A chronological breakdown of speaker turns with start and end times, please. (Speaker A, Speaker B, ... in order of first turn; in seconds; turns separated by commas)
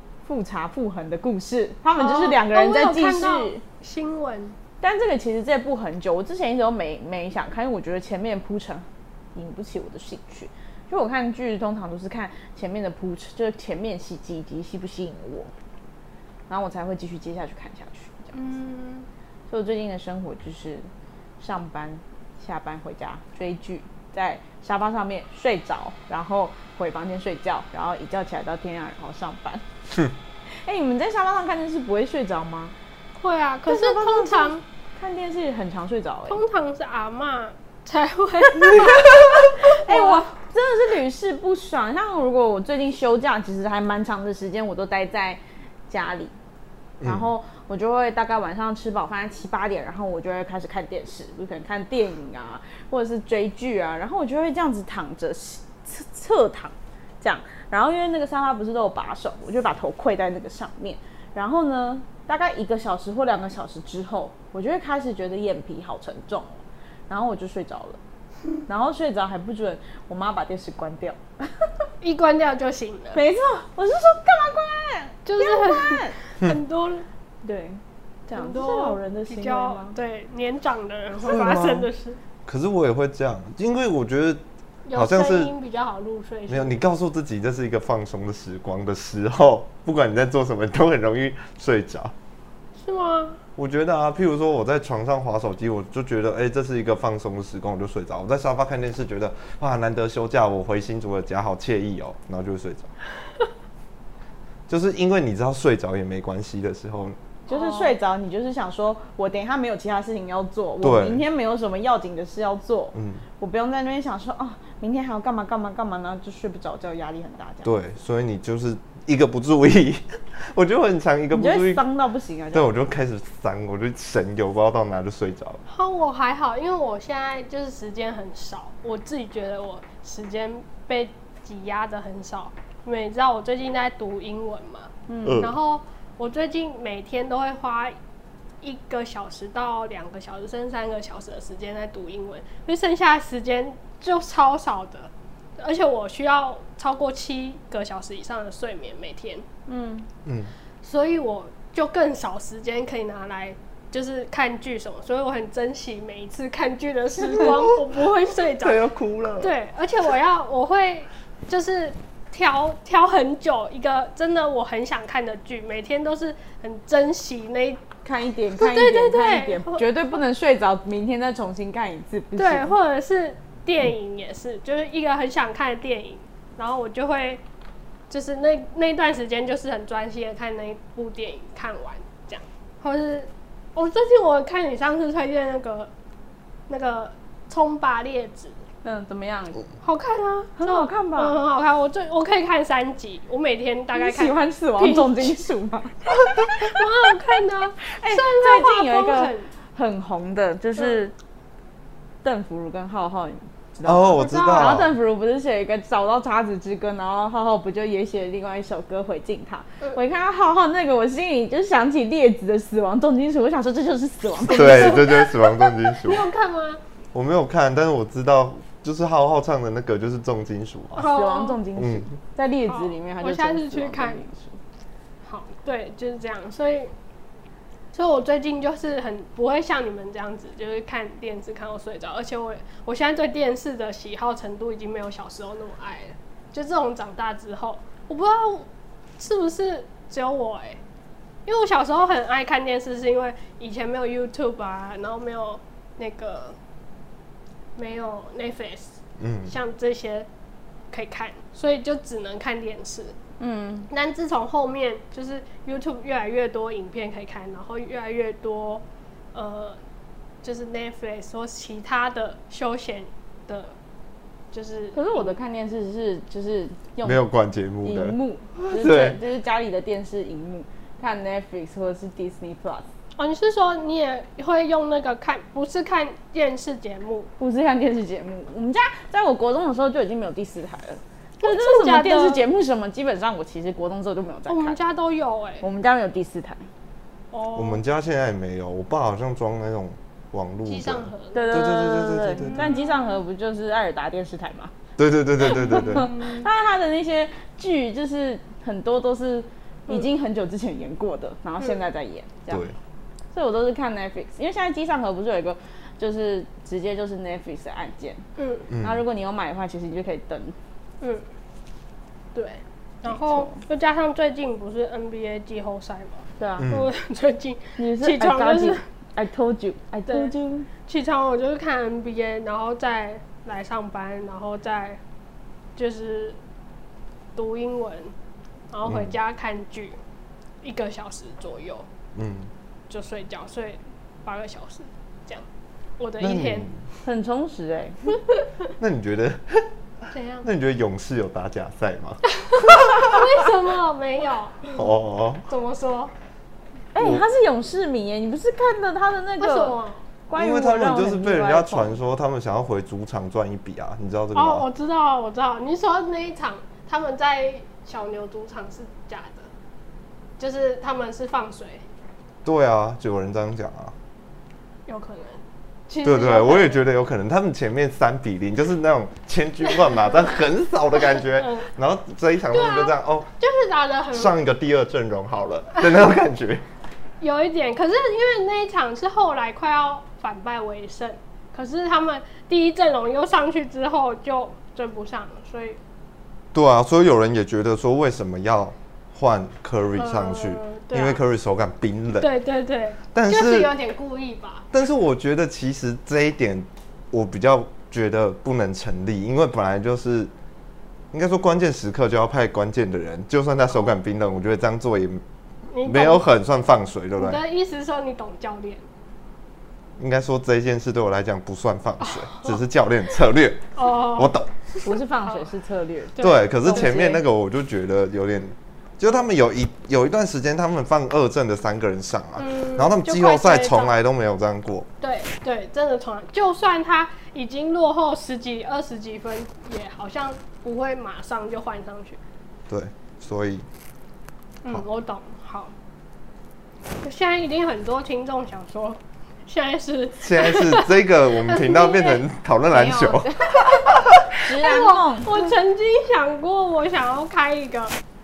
Speaker A: 0.2-3.6, Speaker B: 1.9-4.5, Speaker A: 4.8-15.5, Speaker A: 16.5-18.3, Speaker B: 18.3-19.1, Speaker A: 19.5-20.9, Speaker A: 21.4-29.6, Speaker A: 30.6-32.7, Speaker B: 33.2-34.6, Speaker A: 33.7-36.4, Speaker B: 36.3-40.3, Speaker A: 39.5-46.3, Speaker C: 47.0-47.3, Speaker A: 47.0-68.0, Speaker A: 68.7-71.7, Speaker B: 72.0-73.2, Speaker A: 73.1-76.2, Speaker B: 75.2-77.0, Speaker A: 77.4-80.0, Speaker B: 78.3-82.2, Speaker C: 81.2-81.9, Speaker C: 82.5-85.5, Speaker B: 84.8-86.7, Speaker C: 86.5-92.1, Speaker B: 92.8-93.4, Speaker C: 93.6-102.9, Speaker C: 104.7-107.2, Speaker B: 107.5-107.9, Speaker A: 107.5-117.7, Speaker C: 110.8-111.2, Speaker C: 112.9-113.2, Speaker C: 117.6-121.8, Speaker A: 121.3-122.7, Speaker C: 122.5-125.6, Speaker B: 125.7-137.9, Speaker A: 135.1-135.5, Speaker C: 135.2-135.5, Speaker B: 138.6-149.4, Speaker A: 149.7-150.1, Speaker C: 150.2-150.5, Speaker B: 150.8-158.9, Speaker C: 157.3-157.8, Speaker C: 158.6-159.5, Speaker B: 159.4-167.8, Speaker A: 168.0-172.7, Speaker B: 168.5-169.8, Speaker B: 172.4-177.4, Speaker B: 178.1-185.9, Speaker B: 186.7-188.6, Speaker A: 188.8-189.6, Speaker B: 189.8-195.4, Speaker A: 190.6-191.4, Speaker A: 193.9-196.5, Speaker B: 196.2-199.5, Speaker A: 197.9-201.1, Speaker B: 200.8-201.1, Speaker A: 202.2-215.1, Speaker C: 203.8-204.9, Speaker B: 204.2-204.7, Speaker C: 214.4-216.3, Speaker B: 214.5-216.8, Speaker C: 217.1-221.0, Speaker B: 220.9-221.6, Speaker A: 220.9-224.6, Speaker C: 221.8-222.1, Speaker B: 222.7-224.2, Speaker B: 225.2-226.9, Speaker B: 227.9-240.8, Speaker B: 241.4-246.6, Speaker B: 247.8-250.3, Speaker C: 249.2-249.5, Speaker B: 250.9-253.1, Speaker A: 253.4-253.9, Speaker B: 253.9-259.8, Speaker B: 260.4-263.7, Speaker B: 264.5-265.3, Speaker A: 264.9-267.2, Speaker C: 267.0-269.2, Speaker A: 267.8-272.9, Speaker B: 273.1-277.3, Speaker A: 277.4-284.8, Speaker B: 281.4-282.4, Speaker B: 284.5-285.6, Speaker A: 285.6-286.7, Speaker B: 287.3-287.8, Speaker C: 287.5-292.6, Speaker B: 290.6-291.6, Speaker A: 291.3-294.7, Speaker B: 292.4-293.2, Speaker C: 295.0-296.1, Speaker A: 295.4-302.7, Speaker B: 295.6-296.5, Speaker C: 302.5-302.7, Speaker A: 303.3-308.2, Speaker B: 308.4-308.7, Speaker C: 308.7-309.0, Speaker A: 308.8-310.6, Speaker B: 312.3-318.8, Speaker A: 313.1-313.6, Speaker A: 316.4-316.7, Speaker C: 316.6-316.9, Speaker A: 317.8-320.7, Speaker B: 320.1-320.3, Speaker B: 320.9-325.0, Speaker B: 325.8-326.4, Speaker B: 327.3-328.1, Speaker B: 328.7-330.0, Speaker C: 328.8-329.1, Speaker B: 330.6-331.9, Speaker C: 332.1-332.5, Speaker B: 332.9-335.4, Speaker B: 336.0-336.7, Speaker C: 336.2-336.8, Speaker A: 337.0-338.1, Speaker C: 338.8-339.7, Speaker B: 340.1-340.5, Speaker C: 340.4-343.3, Speaker B: 342.4-344.8, Speaker C: 344.7-345.4, Speaker B: 345.5-346.1, Speaker A: 346.9-349.7, Speaker C: 347.0-347.2, Speaker B: 349.4-350.0, Speaker A: 350.3-352.0, Speaker C: 350.4-354.6, Speaker B: 354.3-359.5, Speaker B: 360.4-361.8, Speaker C: 362.4-363.9, Speaker B: 364.9-366.8, Speaker C: 366.0-373.3, Speaker B: 371.1-371.7, Speaker B: 372.5-374.4, Speaker C: 374.1-376.6, Speaker B: 377.2-385.8, Speaker C: 386.5-392.3, Speaker B: 390.0-391.2, Speaker B: 392.2-394.7, Speaker C: 393.1-393.7, Speaker C: 394.7-400.3, Speaker C: 401.1-405.2, Speaker B: 405.7-406.2, Speaker C: 405.8-407.4, Speaker B: 407.2-408.8, Speaker C: 410.0-414.8, Speaker B: 412.1-412.6, Speaker B: 413.8-414.3, Speaker A: 414.8-417.2, Speaker B: 416.1-417.1, Speaker C: 416.2-424.9, Speaker B: 422.4-423.9, Speaker B: 425.0-432.2, Speaker C: 432.7-433.6, Speaker B: 434.6-435.7, Speaker B: 437.0-442.2, Speaker C: 440.2-444.4, Speaker A: 442.7-443.8, Speaker A: 444.3-445.5, Speaker B: 444.6-447.9